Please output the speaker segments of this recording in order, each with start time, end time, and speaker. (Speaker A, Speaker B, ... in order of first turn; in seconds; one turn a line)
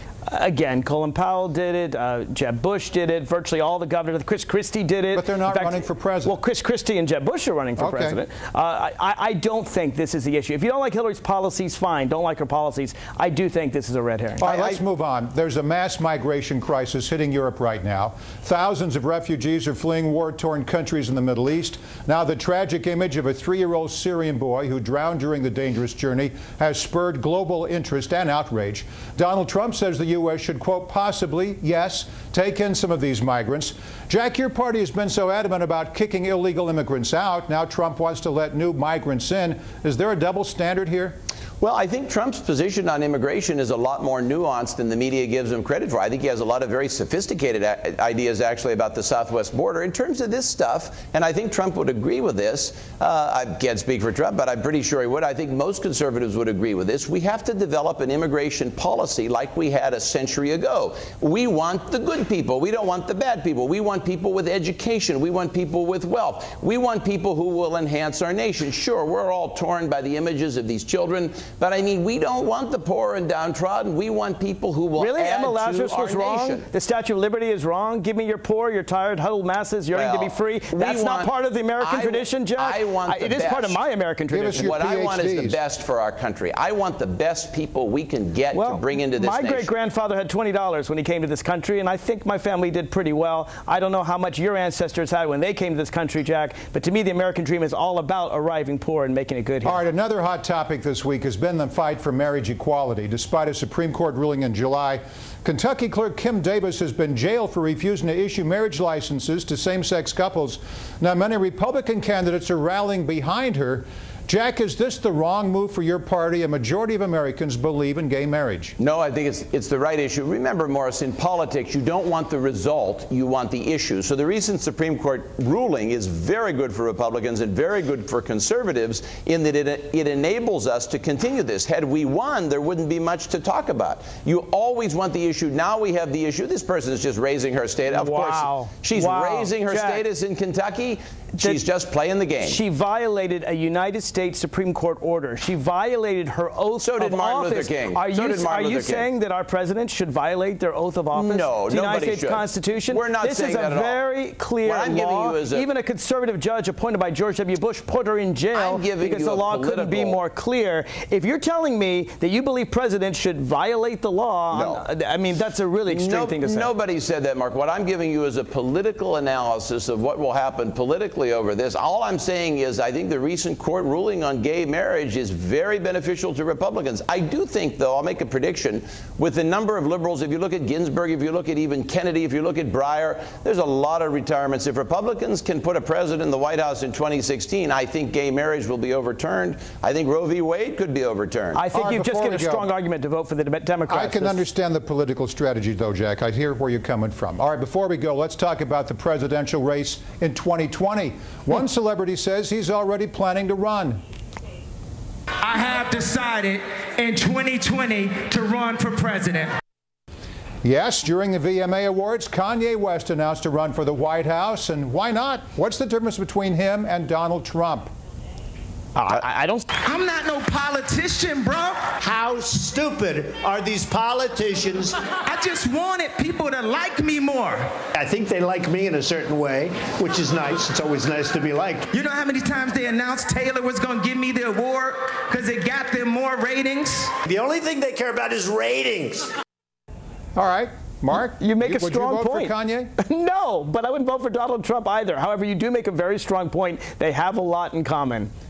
Speaker A: 0.3-14.8
Speaker B: 5.1-6.4
Speaker B: 7.8-8.2
Speaker B: 14.4-41.2
Speaker C: 41.6-76.7
Speaker A: 75.0-84.7
Speaker C: 79.9-83.8
Speaker B: 84.3-85.6
Speaker C: 84.5-89.7
Speaker A: 88.5-99.8
Speaker B: 99.6-118.8
Speaker C: 118.8-142.6
Speaker A: 137.9-140.0
Speaker A: 142.4-166.7
Speaker C: 146.8-149.1
Speaker C: 151.1-154.0
Speaker C: 154.6-155.7
Speaker C: 158.5-160.2
Speaker C: 164.5-164.8
Speaker C: 165.9-191.6
Speaker A: 191.5-194.4
Speaker B: 191.7-192.7
Speaker B: 193.9-204.0
Speaker D: 205.4-209.5
Speaker B: 210.6-217.9
Speaker A: 218.9-219.7
Speaker D: 219.8-221.8
Speaker E: 222.0-225.0
Speaker D: 225.2-227.6
Speaker E: 227.9-231.8
Speaker D: 231.9-237.1
Speaker E: 237.2-239.3
Speaker B: 240.3-242.9
Speaker A: 241.4-248.3